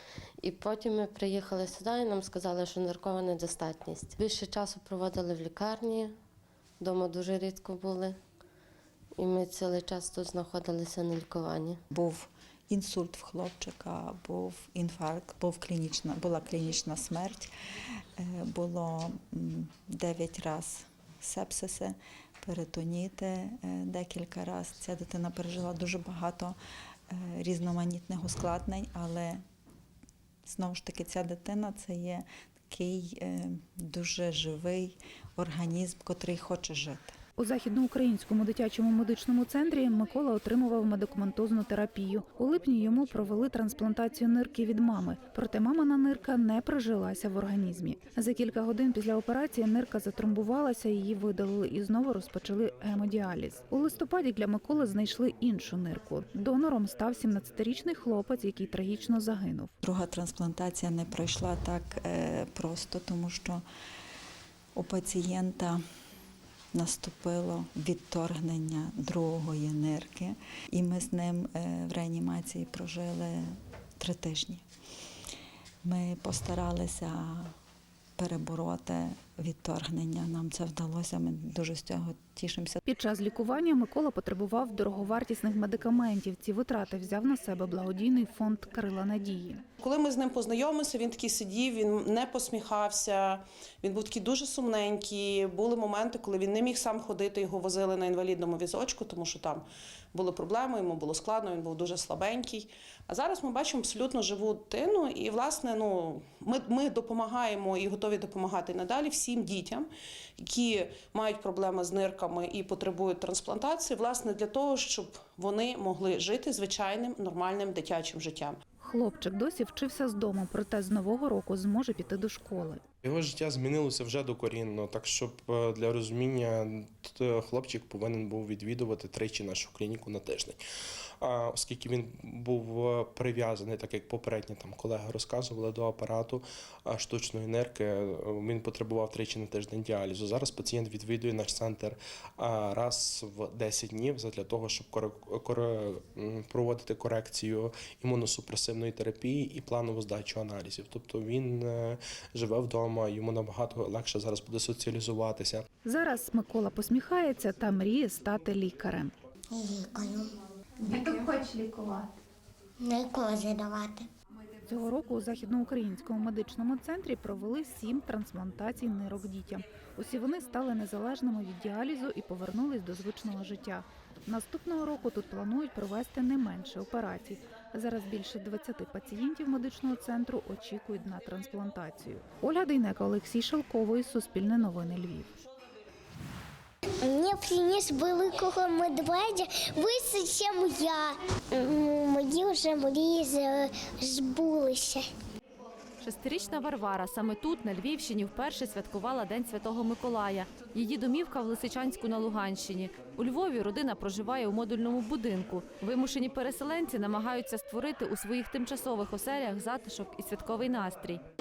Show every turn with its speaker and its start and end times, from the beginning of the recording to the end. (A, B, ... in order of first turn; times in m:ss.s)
0:00.4-0:06.1 A
0:06.8-0:08.2 A
0:09.2-0:11.8 A
0:11.9-0:17.5 B
0:18.2-0:26.6 B
0:27.1-0:29.4 B
0:30.4-0:37.2 B
0:37.4-0:59.7 C
0:59.8-1:03.6 B
1:04.7-1:05.8 B
1:06.7-1:14.6 B
1:15.8-1:17.5 B
1:18.2-1:22.8 B
1:22.8-1:29.6 C
1:29.8-1:58.5 D
1:58.8-2:02.8 C
2:03.0-2:10.6 E
2:11.2-2:35.6 E
2:35.8-2:39.1 C
2:39.5-2:40.3 F
2:40.8-2:42.0 C
2:42.8-2:44.0 F
2:44.7-3:05.3 C
3:07.0-3:15.1 F
3:16.0-3:31.2 G